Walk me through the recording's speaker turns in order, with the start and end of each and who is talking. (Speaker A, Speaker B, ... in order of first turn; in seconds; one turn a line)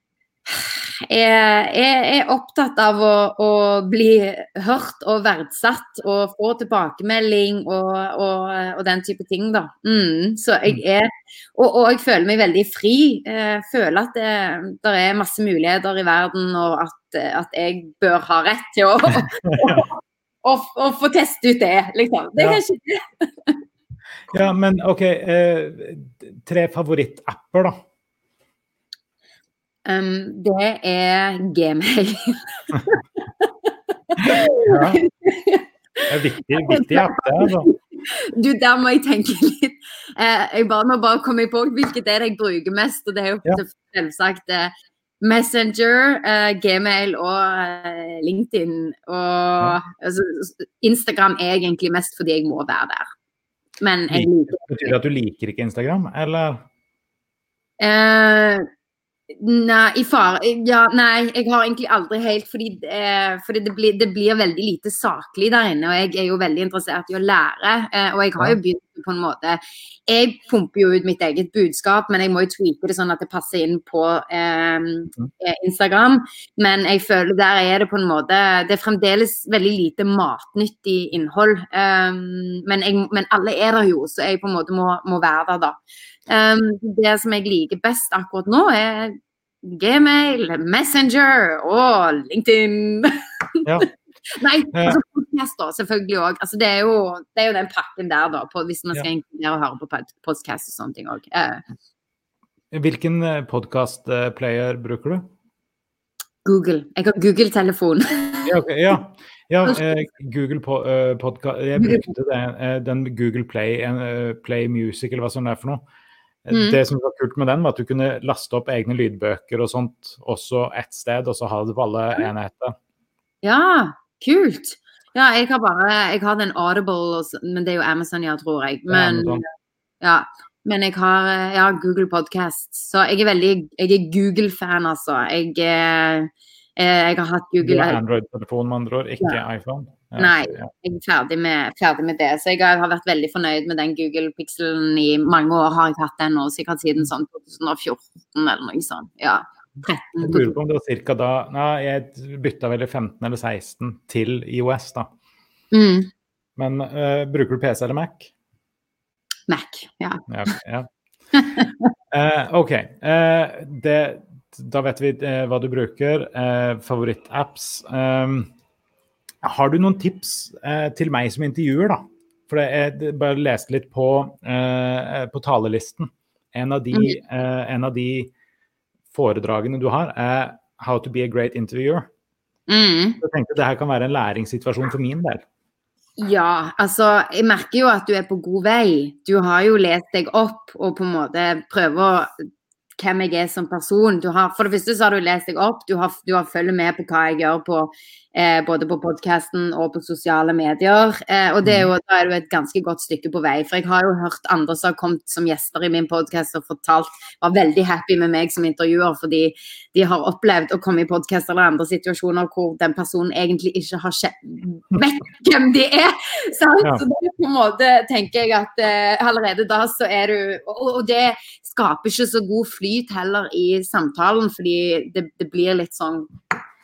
Speaker A: 0.5-19.9
Speaker B: 19.4-19.8
Speaker A: 20.4-23.6
Speaker B: 24.3-27.8
Speaker A: 29.9-36.1
Speaker B: 34.6-35.0
Speaker B: 36.1-37.7
Speaker A: 36.6-53.1
Speaker A: 53.8-54.9
Speaker B: 54.1-56.6
Speaker A: 57.8-58.6
Speaker A: 59.4-101.6
Speaker B: 94.7-95.0
Speaker B: 102.7-105.3
Speaker A: 106.4-108.5
Speaker B: 108.5-115.8
Speaker A: 111.8-112.1
Speaker B: 116.4-122.7
Speaker A: 116.5-116.8
Speaker A: 123.4-129.4
Speaker B: 128.9-129.4
Speaker A: 130.0-138.0
Speaker B: 137.6-140.7
Speaker A: 140.2-150.5
Speaker B: 150.2-155.1
Speaker A: 155.7-156.1
Speaker B: 156.6-158.3
Speaker A: 159.5-160.6
Speaker B: 160.3-160.9
Speaker A: 161.3-161.9
Speaker B: 162.1-168.5
Speaker B: 169.4-178.3
Speaker A: 176.9-177.2
Speaker B: 179.1-182.1
Speaker A: 182.7-183.2
Speaker B: 183.2-185.4
Speaker A: 186.2-192.3
Speaker A: 193.0-226.3
Speaker B: 201.6-201.9